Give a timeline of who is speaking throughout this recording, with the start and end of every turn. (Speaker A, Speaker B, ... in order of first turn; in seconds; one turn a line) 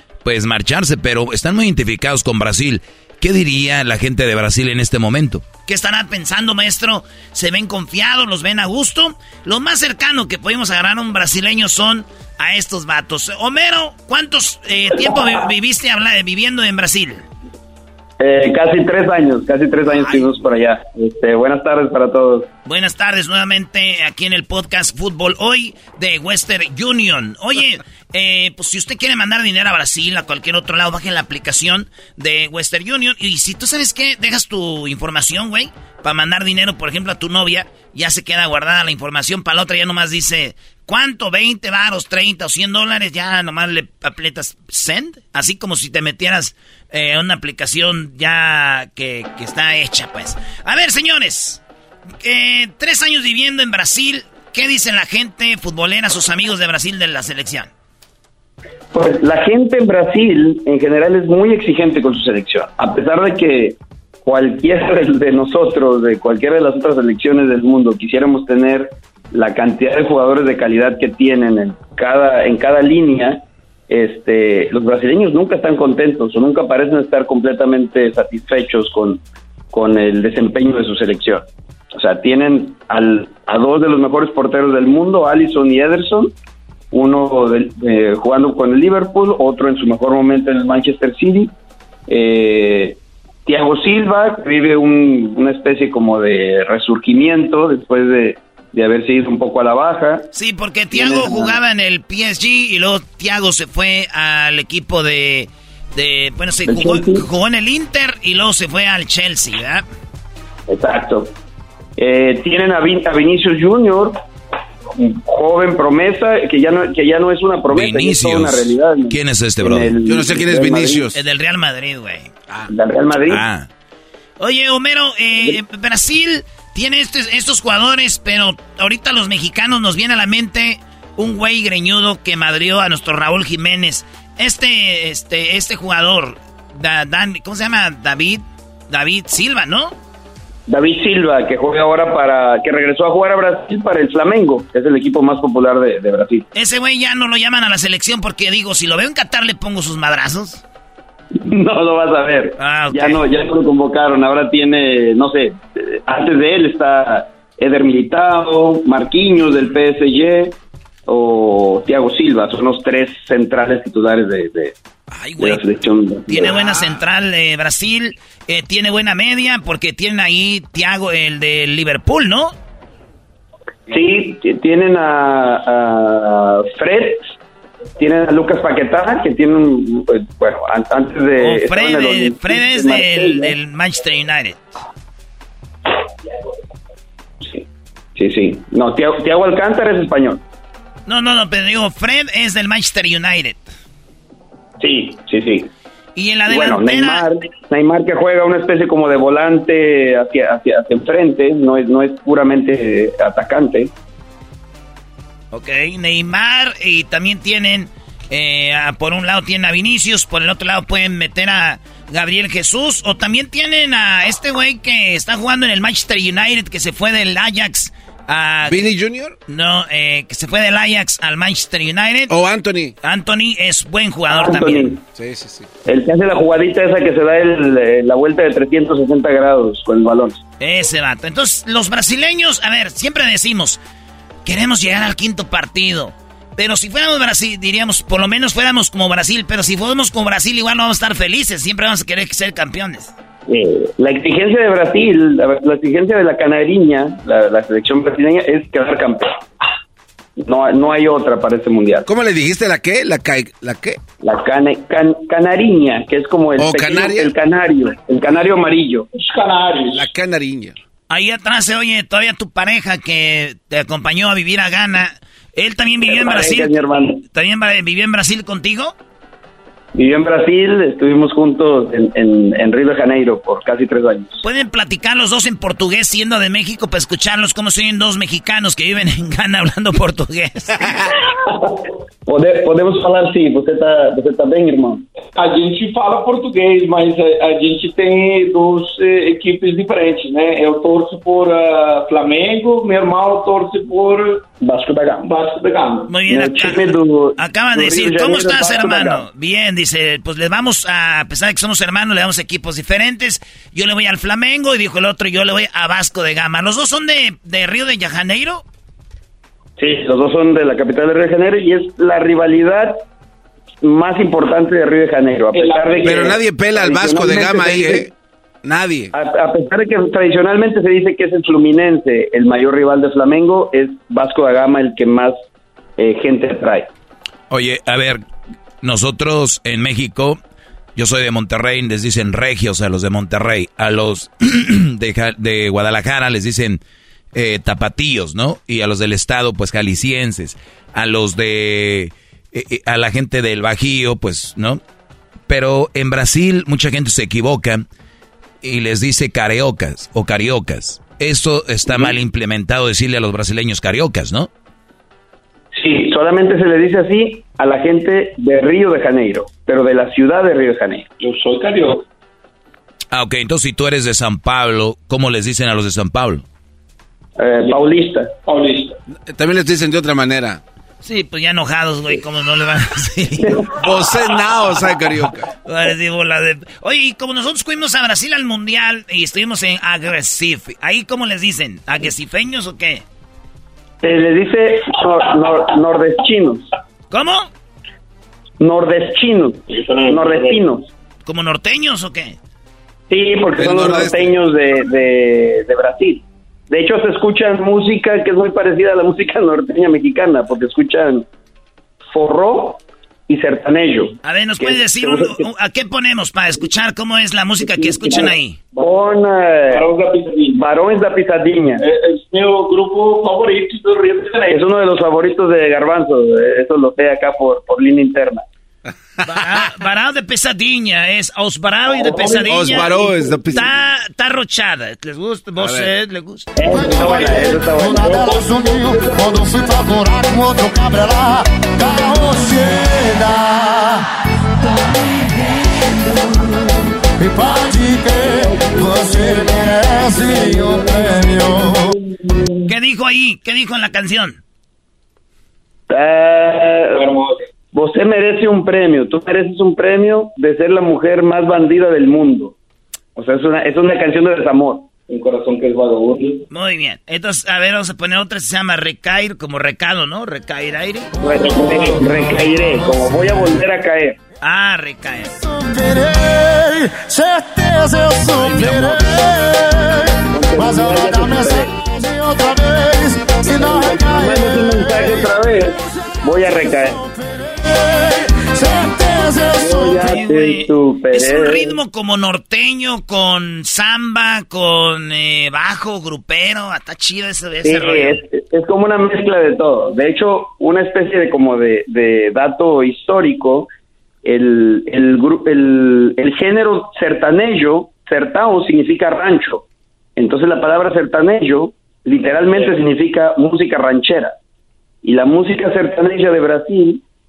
Speaker A: 0.2-5.5
Speaker B: 5.7-17.3
Speaker C: 18.2-22.5
Speaker B: 22.6-51.6
Speaker B: 52.2-57.7
Speaker C: 58.9-79.2
Speaker C: 79.7-86.3
Speaker C: 86.9-91.5
Speaker C: 92.1-100.3
Speaker B: 100.3-109.8
Speaker C: 100.9-101.6
Speaker C: 106.7-107.2
Speaker C: 110.7-111.3
Speaker C: 112.0-114.2
Speaker C: 114.9-121.0
Speaker A: 117.7-119.9
Speaker D: 120.1-121.2
Speaker B: 121.2-122.3
Speaker C: 122.7-123.4
Speaker A: 123.3-123.7
Speaker B: 124.4-140.0
Speaker C: 140.7-146.5
Speaker B: 146.5-150.6
Speaker C: 151.3-160.6
Speaker B: 152.6-153.2
Speaker C: 161.1-164.8
Speaker B: 165.1-165.6
Speaker C: 165.4-166.5
Speaker B: 166.3-172.6
Speaker C: 173.9-177.3
Speaker C: 178.0-183.5
Speaker B: 181.4-184.6
Speaker C: 188.2-190.4
Speaker B: 191.1-193.7
Speaker C: 194.8-195.7
Speaker B: 196.2-197.2
Speaker C: 196.5-203.9
Speaker B: 205.5-218.9
Speaker D: 218.7-219.4
Speaker B: 219.5-222.3
Speaker D: 222.3-222.9
Speaker B: 223.0-224.9
Speaker C: 224.3-225.0
Speaker D: 225.2-225.7
Speaker C: 225.9-230.4
Speaker B: 230.6-233.8
Speaker B: 234.4-243.1
Speaker C: 243.5-249.4
Speaker C: 250.4-252.1
Speaker D: 252.1-254.0
Speaker C: 254.2-259.1
Speaker D: 256.6-257.3
Speaker E: 259.2-260.1
Speaker D: 259.9-260.7
Speaker B: 261.1-268.9
Speaker C: 266.1-267.2
Speaker C: 269.9-274.4
Speaker B: 274.4-281.0
Speaker C: 282.3-285.1
Speaker E: 285.4-294.4
Speaker C: 294.6-295.3
Speaker E: 295.2-296.1
Speaker B: 296.1-308.6
Speaker C: 296.2-299.2
Speaker C: 309.8-313.0
Speaker C: 313.8-318.1
Speaker E: 315.6-316.3
Speaker D: 316.0-318.1
Speaker D: 318.6-319.1
Speaker C: 319.1-325.4
Speaker C: 326.0-326.9
Speaker A: 327.5-328.2
Speaker A: 328.8-330.4
Speaker A: 331.0-336.8
Speaker A: 337.3-344.8
Speaker A: 345.5-347.9
Speaker A: 348.6-354.5
Speaker C: 355.7-361.1
Speaker E: 361.2-362.0
Speaker A: 363.1-366.4
Speaker C: 367.4-368.3
Speaker E: 368.5-369.0
Speaker D: 369.3-370.6
Speaker B: 371.0-373.5
Speaker D: 373.8-375.5
Speaker B: 375.7-383.0
Speaker C: 384.0-386.7
Speaker B: 387.1-387.5
Speaker C: 388.6-390.9
Speaker E: 389.7-390.6
Speaker B: 391.3-392.4
Speaker C: 393.1-401.3
Speaker D: 393.6-394.4
Speaker C: 402.1-405.4
Speaker B: 404.2-408.6
Speaker C: 407.6-409.9
Speaker E: 409.7-410.6
Speaker C: 410.5-411.8
Speaker E: 411.8-414.5
Speaker C: 414.5-418.4
Speaker B: 419.2-422.9
Speaker C: 422.1-422.3
Speaker D: 422.5-423.8
Speaker B: 423.5-426.5
Speaker D: 425.6-425.9
Speaker C: 426.6-428.7
Speaker F: 426.6-434.1
Speaker F: 437.2-441.9
Speaker B: 442.7-444.4
Speaker C: 445.9-447.1
Speaker E: 447.0-447.4
Speaker C: 447.7-452.5
Speaker C: 453.2-454.9
Speaker E: 455.1-456.4
Speaker B: 456.5-461.1
Speaker C: 461.2-464.2
Speaker B: 464.4-465.4
Speaker F: 465.5-475.3
Speaker B: 468.5-468.8
Speaker C: 470.3-471.7
Speaker C: 473.6-477.0
Speaker F: 477.5-480.1
Speaker C: 479.6-481.8
Speaker B: 480.0-488.2
Speaker C: 487.6-493.7
Speaker C: 494.2-499.6
Speaker C: 500.2-504.3
Speaker C: 505.0-507.0